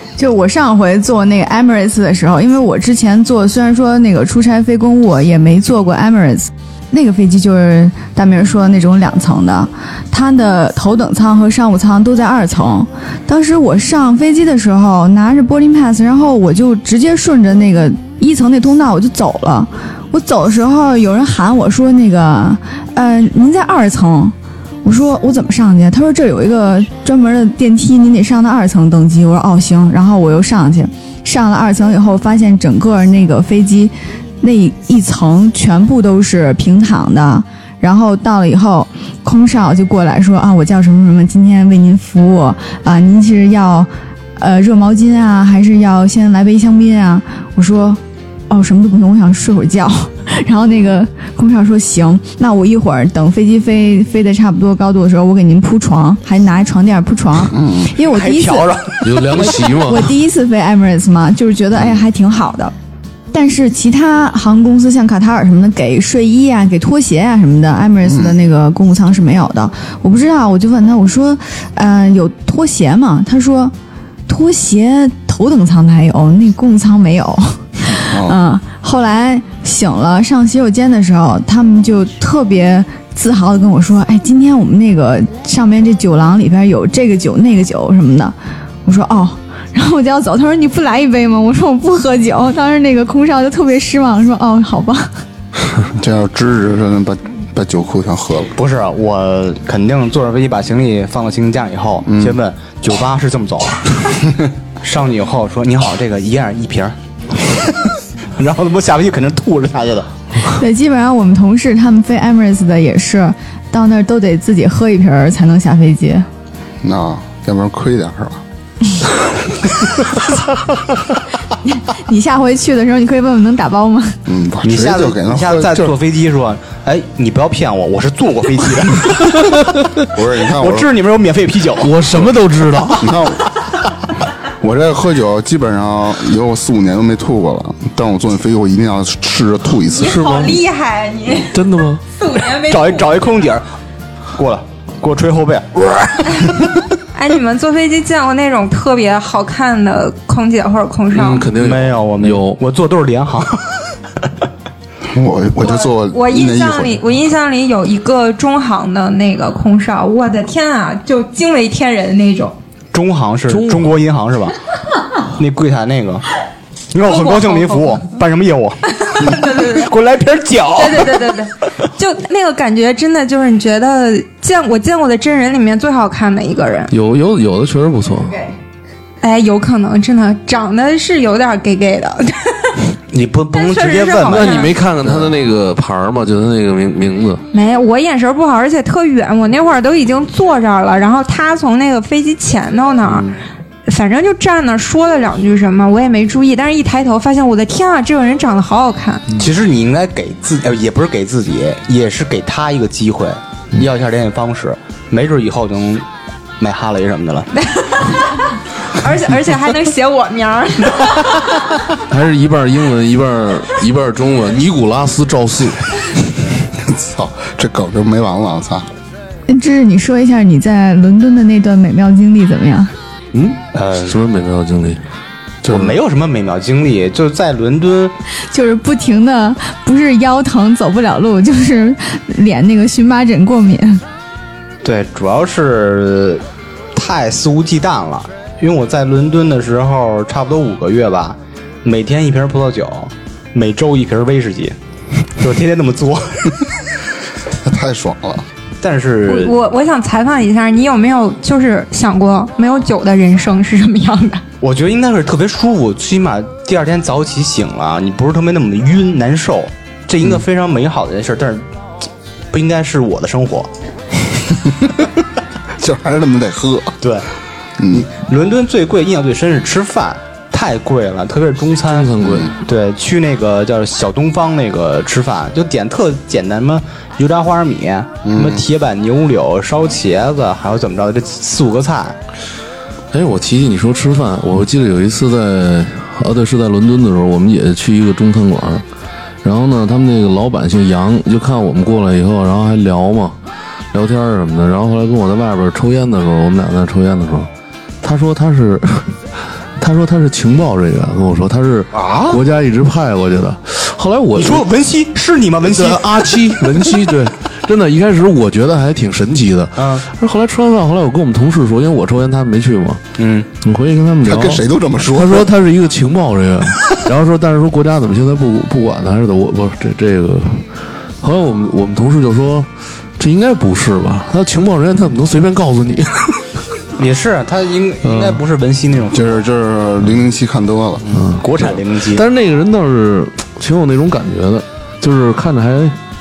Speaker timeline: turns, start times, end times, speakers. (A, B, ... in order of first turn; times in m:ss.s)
0:00.2-0:58.7 A
0:57.5-0:57.9 B
0:58.0-0:59.7 C
0:59.0-1:00.2 D
0:59.3-1:02.7 A
1:03.3-1:13.7 A
1:08.1-1:08.3 B
1:14.3-1:35.1 A
1:18.1-1:18.4 B
1:35.9-1:38.5 B
1:38.5-1:44.0 C
1:42.1-1:42.4 B
1:44.8-1:50.1 C
1:50.5-1:56.3 A
1:56.8-1:58.4 B
2:01.6-2:04.2 A
2:04.2-2:05.9 B
2:04.6-2:09.7 C
2:10.1-2:10.9 B
2:10.4-2:12.8 C
2:11.8-2:13.1 D
2:13.0-2:13.5 B
2:14.6-2:20.3 B
2:19.9-2:21.6 E
2:20.0-2:20.6 D
2:21.5-2:22.0 D
2:22.1-2:23.1 E
2:22.7-2:23.6 C
2:24.3-2:26.5 C
2:27.1-2:31.5 E
2:31.1-2:32.6 D
2:31.5-2:33.9 C
2:35.1-2:37.0 B
2:35.6-2:42.5 E
2:42.9-2:44.5 C
2:43.5-2:43.8 D
2:45.2-2:46.3 C
2:46.9-2:51.3 C
2:47.0-2:48.0 E
2:48.9-2:49.9 E
2:50.7-2:56.9 E
2:56.9-2:58.5 D
2:59.2-3:02.9 E
3:03.1-3:05.2 C
3:03.5-3:04.8 E
3:04.3-3:07.4 D
3:07.5-3:13.3 E
3:13.1-3:13.4 C
3:13.8-3:19.3 E
3:19.3-3:26.0 C
3:26.6-3:27.5 C
3:27.6-3:31.4 E
3:32.0-3:35.9 D
3:36.8-3:38.9 B
3:39.5-3:42.9 A
3:43.3-3:45.0 D
3:43.7-3:44.2 C
3:45.6-3:45.9 D
3:45.6-3:48.1 C
3:48.5-3:54.0 A
3:54.8-3:56.4 C
3:56.9-4:04.7 C
4:05.4-4:06.7 C
4:07.6-4:08.4 B
4:08.8-4:09.5 C
4:09.2-4:14.4 E
4:14.6-4:21.6 C
4:22.5-4:23.7 C
4:25.8-4:27.0 B
4:27.0-4:27.3 C
4:27.8-4:28.1 B
4:27.9-4:42.2 C
4:31.9-4:32.5 D
4:32.2-4:32.5 B
4:38.2-4:38.6 B
4:43.1-4:48.8 D
4:49.4-4:53.4 D
4:53.9-4:57.5 D
4:58.0-5:04.6 D
5:01.9-5:02.4 C
5:04.3-5:06.7 C
5:05.6-5:13.0 D
5:09.8-5:10.0 C
5:13.2-5:13.5 C
5:13.6-5:26.4 D
5:14.2-5:15.5 B
5:27.0-5:29.4 C
5:28.0-5:28.4 D
5:29.1-5:31.1 B
5:31.1-5:32.2 C
5:31.1-5:36.0 D